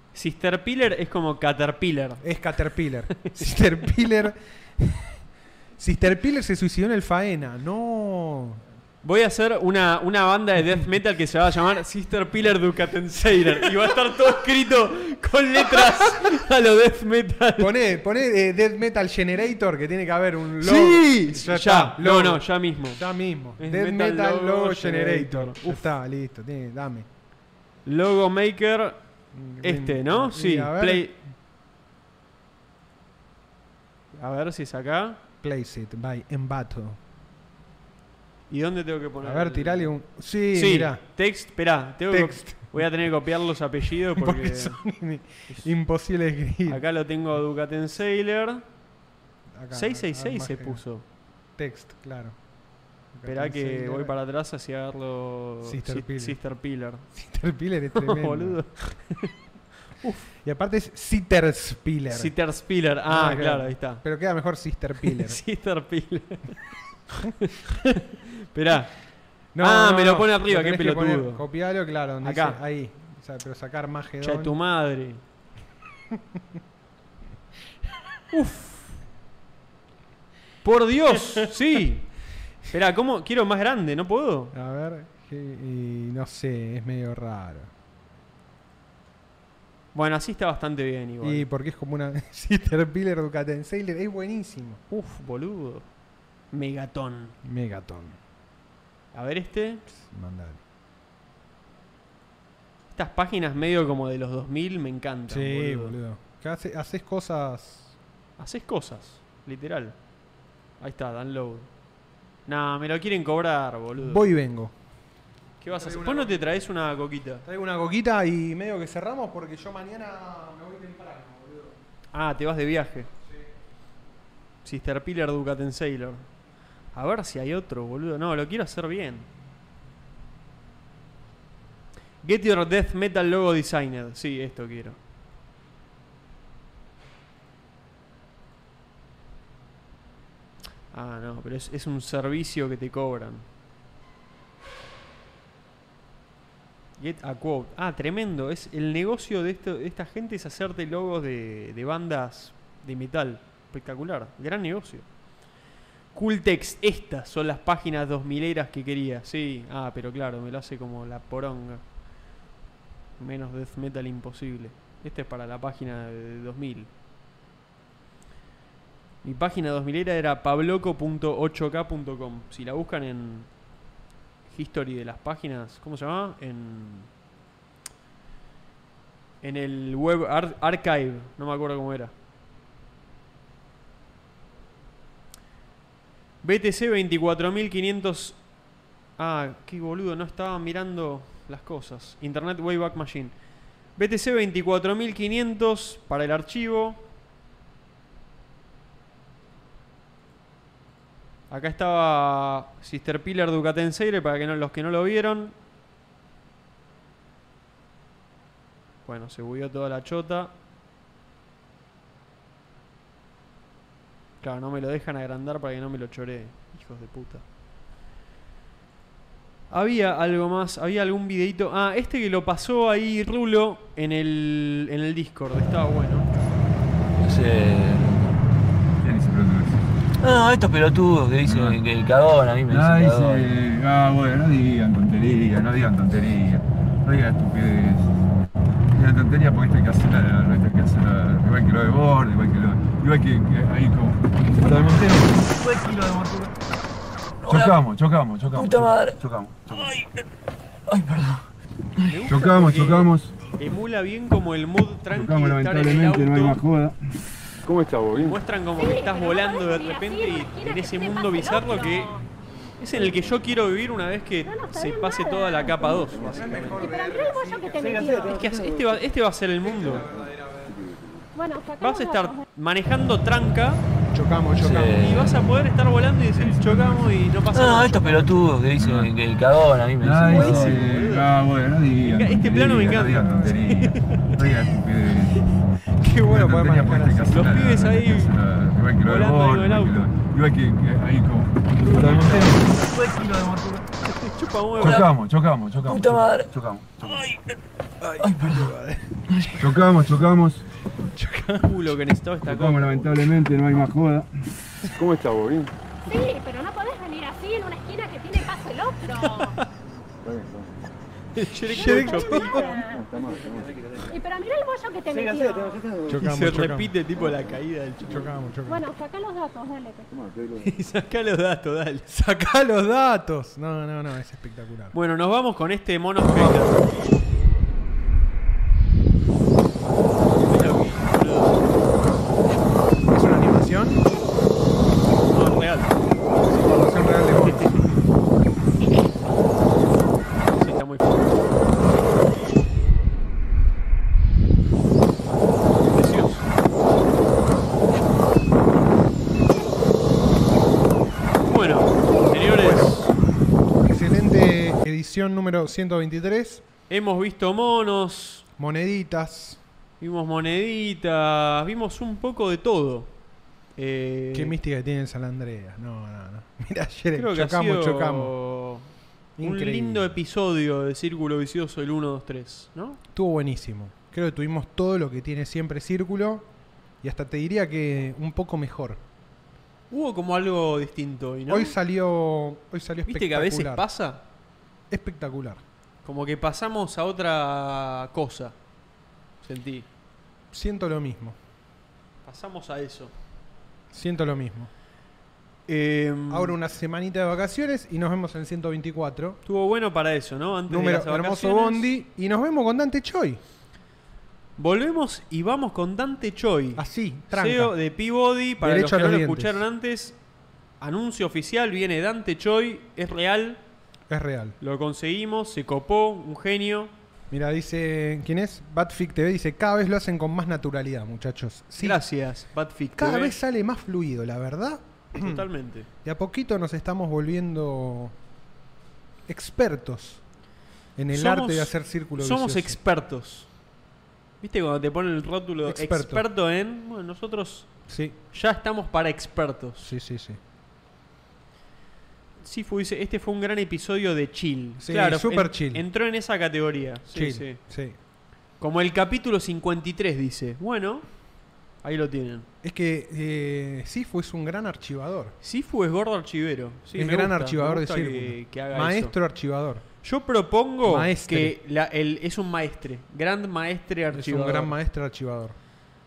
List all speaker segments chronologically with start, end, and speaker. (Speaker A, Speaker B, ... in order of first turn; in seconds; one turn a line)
Speaker A: 0.1-2.2
Speaker B: 2.2-5.2
Speaker B: 5.8-8.6
Speaker A: 9.0-17.8
Speaker B: 15.6-16.3
Speaker B: 17.6-27.1
Speaker A: 20.6-23.0
Speaker A: 23.6-25.9
Speaker A: 27.8-29.0
Speaker B: 29.3-31.2
Speaker A: 29.6-31.1
Speaker A: 34.1-35.2
Speaker B: 35.4-37.0
Speaker A: 38.5-39.9
Speaker B: 39.2-41.0
Speaker A: 40.5-44.8
Speaker B: 42.1-42.9
Speaker B: 44.1-46.8
Speaker A: 46.7-48.6
Speaker B: 49.5-50.8
Speaker A: 49.7-51.0
Speaker B: 51.6-52.4
Speaker B: 53.1-54.1
Speaker A: 53.2-57.0
Speaker B: 55.6-56.4
Speaker B: 57.1-58.6
Speaker A: 57.9-59.3
Speaker A: 60.0-60.3
Speaker B: 60.4-62.3
Speaker A: 62.1-64.0
Speaker B: 63.1-65.4
Speaker A: 65.0-66.6
Speaker A: 67.1-68.9
Speaker B: 69.5-74.5
Speaker A: 69.6-71.4
Speaker A: 72.2-72.6
Speaker A: 74.2-75.2
Speaker B: 76.1-76.4
Speaker A: 78.3-79.0
Speaker A: 80.6-82.1
Speaker A: 82.7-84.5
Speaker B: 84.5-87.7
Speaker A: 89.9-91.5
Speaker B: 91.2-94.8
Speaker A: 94.9-95.9
Speaker A: 96.5-97.3
Speaker B: 97.4-98.2
Speaker A: 99.1-99.8
Speaker B: 99.9-100.6
Speaker A: 102.9-106.0
Speaker B: 105.3-107.9
Speaker A: 108.4-110.0
Speaker A: 110.8-111.7
Speaker A: 112.5-114.2
Speaker B: 114.0-114.7
Speaker A: 115.6-117.4
Speaker B: 115.7-116.5
Speaker B: 117.4-121.8
Speaker A: 122.1-123.1
Speaker A: 124.6-126.3
Speaker A: 126.9-129.3
Speaker A: 132.2-135.0
Speaker A: 140.9-143.4
Speaker A: 147.0-155.1
Speaker A: 156.1-161.8
Speaker A: 163.2-166.9
Speaker A: 169.2-173.5
Speaker A: 174.5-177.1
Speaker A: 179.4-182.1
Speaker A: 186.4-188.4
Speaker A: 189.2-193.3
Speaker A: 193.9-197.0
Speaker A: 201.5-205.5
Speaker A: 209.0-210.5
Speaker A: 214.4-217.4
Speaker A: 219.7-226.3
Speaker C: 227.2-228.3
Speaker D: 229.0-229.8
Speaker C: 230.2-233.4
Speaker D: 231.4-231.8
Speaker D: 232.7-238.1
Speaker D: 238.9-246.5
Speaker C: 245.6-245.9
Speaker C: 247.5-247.8
Speaker D: 247.5-250.1
Speaker C: 248.5-249.1
Speaker C: 250.9-251.4
Speaker A: 252.1-256.6
Speaker D: 252.2-253.4
Speaker D: 255.1-257.0
Speaker D: 257.6-258.4
Speaker A: 258.1-262.2
Speaker E: 258.8-262.2
Speaker A: 262.8-266.9
Speaker E: 264.4-266.1
Speaker B: 266.2-268.5
Speaker E: 266.8-268.4
Speaker A: 268.2-270.1
Speaker B: 269.6-270.9
Speaker E: 271.3-272.4
Speaker A: 271.8-273.8
Speaker B: 274.1-275.0
Speaker C: 274.6-275.3
Speaker A: 274.8-278.9
Speaker D: 276.3-277.2
Speaker C: 277.5-280.7
Speaker D: 278.8-279.1
Speaker D: 280.0-285.4
Speaker A: 280.2-281.3
Speaker A: 282.0-284.6
Speaker B: 283.1-283.5
Speaker B: 286.0-287.3
Speaker D: 286.2-293.3
Speaker A: 287.3-288.3
Speaker A: 289.0-290.1
Speaker A: 292.0-292.5
Speaker C: 292.9-293.3
Speaker A: 294.0-295.0
Speaker D: 294.8-297.5
Speaker C: 295.8-296.5
Speaker B: 298.0-299.2
Speaker C: 298.2-298.5
Speaker D: 299.6-300.6
Speaker B: 301.1-301.9
Speaker A: 301.6-303.3
Speaker D: 302.4-305.7
Speaker E: 306.1-309.6
Speaker A: 309.4-309.6
Speaker A: 311.3-312.8
Speaker B: 311.7-312.8
Speaker E: 311.8-313.1
Speaker E: 314.1-315.9
Speaker B: 316.1-317.0
Speaker A: 316.2-318.3
Speaker B: 318.0-318.9
Speaker E: 318.7-320.3
Speaker A: 320.6-322.1
Speaker B: 322.1-324.9
Speaker A: 324.9-326.8
Speaker B: 326.2-326.8
Speaker A: 330.4-331.6
Speaker B: 333.1-334.0
Speaker A: 335.3-335.9
Speaker B: 336.4-337.8
Speaker A: 340.5-341.4
Speaker A: 345.8-346.4
Speaker A: 351.4-353.1
Speaker B: 352.5-353.0
Speaker B: 353.8-356.6
Speaker A: 356.9-358.4
Speaker B: 358.6-359.6
Speaker A: 360.0-363.1
Speaker A: 363.8-364.5
Speaker B: 364.3-368.4
Speaker A: 367.1-368.9
Speaker B: 369.4-370.2
Speaker A: 369.4-373.0
Speaker B: 373.1-376.5
Speaker B: 377.0-379.0
Speaker A: 379.9-381.8
Speaker B: 381.5-383.8
Speaker A: 383.1-384.2
Speaker B: 384.9-385.6
Speaker A: 386.0-388.6
Speaker A: 389.4-389.9
Speaker B: 390.5-391.4
Speaker A: 392.2-393.1
Speaker B: 393.9-394.7
Speaker A: 395.7-396.6
Speaker B: 396.3-399.4
Speaker A: 399.4-401.9
Speaker B: 400.7-403.4
Speaker A: 404.6-410.2
Speaker B: 406.8-407.7
Speaker B: 408.6-409.6
Speaker A: 410.8-413.6
Speaker B: 414.1-414.6
Speaker A: 414.6-416.9
Speaker B: 417.3-422.0
Speaker A: 421.8-423.4
Speaker B: 423.0-425.5
Speaker A: 425.1-425.9
Speaker B: 426.0-428.1
Speaker B: 429.3-430.2
Speaker B: 431.0-432.8
Speaker A: 431.1-433.5
Speaker A: 434.4-437.7
Speaker B: 435.6-436.2
Speaker B: 437.9-438.2
Speaker A: 438.3-439.9
Speaker B: 439.8-440.4
Speaker A: 442.4-447.6
Speaker B: 444.8-445.8
Speaker B: 447.1-447.9
Speaker A: 448.6-451.1
Speaker A: 451.8-452.5
Speaker B: 452.6-455.3
Speaker A: 455.4-459.1
Speaker B: 456.9-459.8
Speaker A: 460.0-464.7
Speaker B: 460.8-461.6
Speaker B: 464.1-465.6